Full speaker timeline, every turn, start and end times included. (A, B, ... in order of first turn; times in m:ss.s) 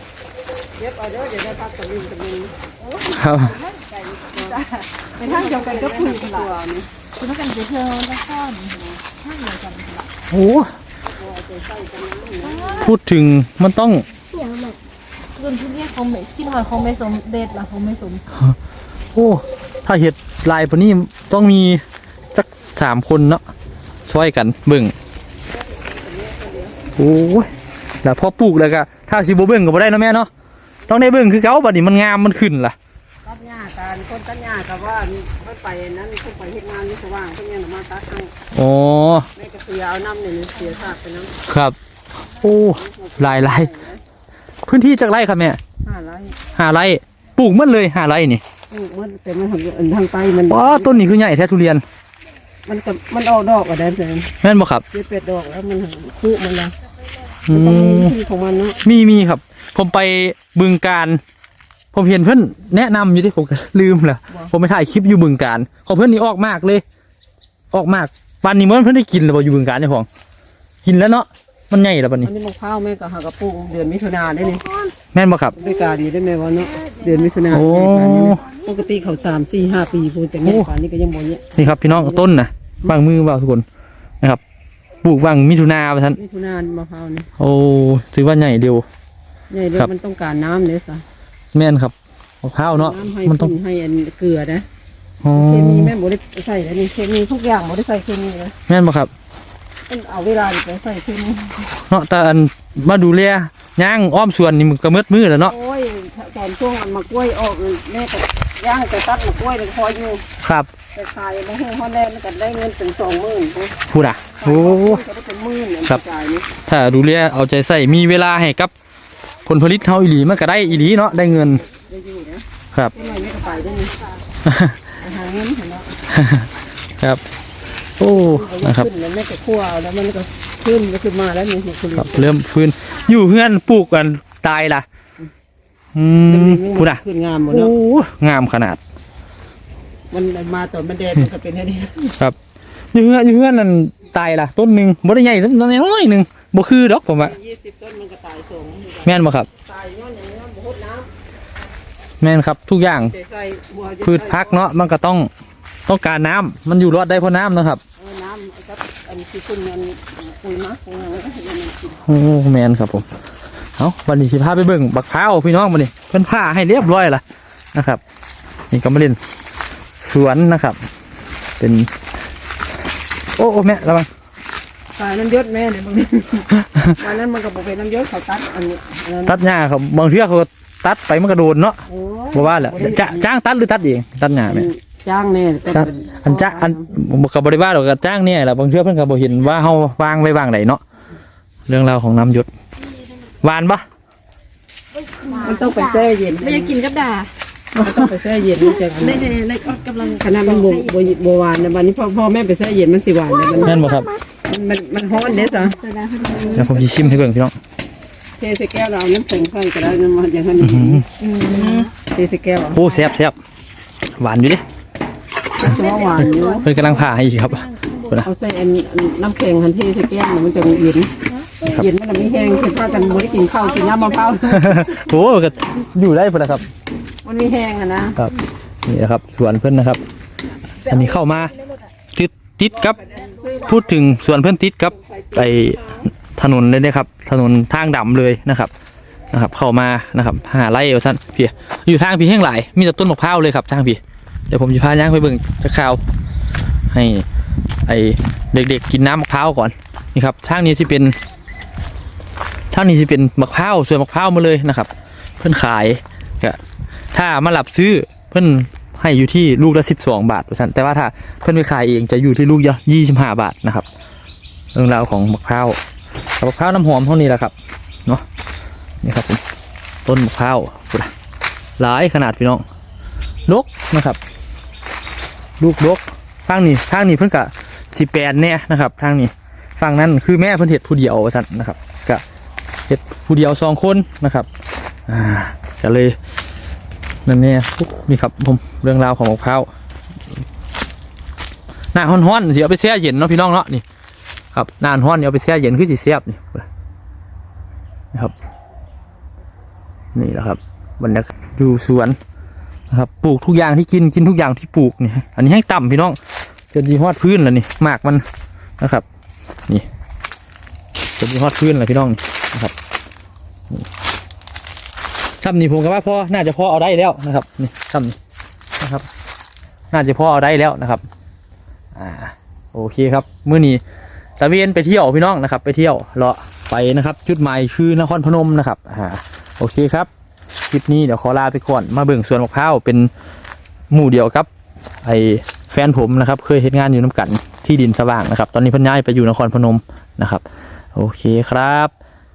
0:00.8-0:02.7 A
0:03.0-0:06.6 B
0:03.1-0:03.6 C
0:04.2-0:04.6 A
0:05.2-0:06.9 A
0:07.2-0:10.1 B
0:10.3-0:10.7 C
0:11.1-0:12.9 A
0:12.4-0:12.9 B
0:12.8-0:14.0 C
0:14.3-0:14.8 B
0:15.4-0:18.2 B
0:19.1-0:21.8 C
0:22.3-0:23.4 C
0:24.1-0:24.9 C
0:25.7-0:26.8 A
0:27.0-0:27.5 C
0:28.0-0:30.3 C
0:30.9-0:32.8 C
0:33.2-0:38.3 A
0:38.5-0:39.3 C
0:39.4-0:41.3 A
0:41.5-0:41.8 C
0:42.4-0:43.7 C
0:42.6-0:44.0 A
0:44.7-0:45.6 C
0:45.8-0:46.4 A
0:46.5-0:48.4 C
0:48.7-0:51.1 A
0:50.5-0:51.8 C
0:52.7-0:54.3 A
0:54.4-0:54.8 C
0:54.9-0:56.7 A
0:57.5-0:58.1 C
0:57.5-0:58.8 A
0:58.8-1:01.2 C
1:01.9-1:06.8 C
1:07.7-1:10.1 C
1:10.8-1:12.3 C
1:12.2-1:14.6 A
1:15.1-1:15.6 C
1:15.5-1:22.3 A
1:17.5-1:18.4 C
1:20.4-1:20.7 C
1:21.6-1:23.6 C
1:25.0-1:26.2 C
1:26.2-1:27.3 A
1:27.4-1:28.9 C
1:29.5-1:31.0 A
1:31.5-1:33.5 C
1:32.7-1:34.7 A
1:35.2-1:35.9 C
1:35.3-1:38.5 A
1:38.7-1:39.1 C
1:39.9-1:41.7 A
1:41.9-1:45.6 C
1:45.4-1:50.2 A
1:50.4-1:50.7 C
1:50.9-1:56.5 A
1:53.9-1:55.0 C
1:56.7-1:58.7 C
1:59.5-2:01.6 C
2:01.6-2:04.0 A
2:04.4-2:04.8 C
2:05.0-2:05.9 A
2:06.1-2:06.5 C
2:08.0-2:08.9 C
2:08.3-2:12.3 A
2:12.0-2:14.9 C
2:16.0-2:18.8 C
2:16.3-2:17.8 A
2:20.1-2:22.2 A
2:22.9-2:27.4 C
2:27.2-2:31.1 A
2:29.0-2:29.5 C
2:32.2-2:33.1 C
2:33.0-2:34.7 A
2:34.0-2:35.3 C
2:35.9-2:37.8 C
2:38.0-2:42.0 A
2:42.1-2:43.1 C
2:43.8-2:47.2 C
2:47.7-2:48.0 C
2:48.7-2:49.2 C
2:50.0-2:50.8 C
2:51.6-2:51.9 C
2:53.4-2:54.1 C
2:55.0-2:59.4 A
2:59.3-3:01.8 C
3:01.9-3:03.3 A
3:02.3-3:04.7 C
3:04.5-3:06.9 A
3:05.7-3:10.8 C
3:11.7-3:12.5 C
3:13.3-3:13.8 C
3:15.0-3:18.0 B
3:15.4-3:16.8 A
3:17.8-3:19.4 A
3:18.8-3:21.1 B
3:20.2-3:23.8 A
3:23.4-3:24.2 B
3:23.6-3:24.1 C
3:24.5-3:25.8 A
3:25.3-3:27.0 B
3:26.6-3:27.6 C
3:28.4-3:33.0 A
3:30.6-3:31.1 C
3:31.2-3:31.9 B
3:32.8-3:33.4 C
3:34.2-3:34.6 C
3:35.6-3:36.7 A
3:35.6-3:38.1 B
3:36.6-3:38.3 C
3:38.2-3:41.1 A
3:41.3-3:44.4 B
3:41.7-3:44.8 A
3:44.5-3:46.6 C
3:47.2-3:48.2 A
3:48.2-3:50.0 C
3:50.8-3:51.6 C
3:52.1-3:53.0 C
3:53.0-3:54.0 A
3:53.6-3:58.7 C
3:54.9-3:56.1 A
3:59.3-4:06.0 C
4:06.9-4:07.3 C
4:07.9-4:11.2 C
4:12.7-4:16.6 C
4:17.1-4:23.9 C
4:24.7-4:25.8 C
4:26.4-4:27.5 C
4:29.0-4:29.4 C
4:30.0-4:31.1 C
4:31.8-4:32.6 C
4:33.5-4:34.2 C
4:35.6-4:42.2 C
4:42.9-4:44.5 C
4:45.1-4:46.2 C
4:47.3-4:49.7 C
4:51.9-4:53.8 C
4:54.5-4:56.7 C
5:00.2-5:02.2 C
5:02.9-5:06.2 C
5:06.7-5:08.2 C
5:08.8-5:09.0 C
5:11.2-5:12.7 C
5:15.4-5:18.2 C
5:18.8-5:19.1 C
5:19.9-5:21.0 C
5:22.0-5:23.8 C
5:24.4-5:30.1 C
5:30.7-5:33.1 C
5:33.9-5:34.5 C
5:35.0-5:40.4 C
5:41.0-5:41.9 C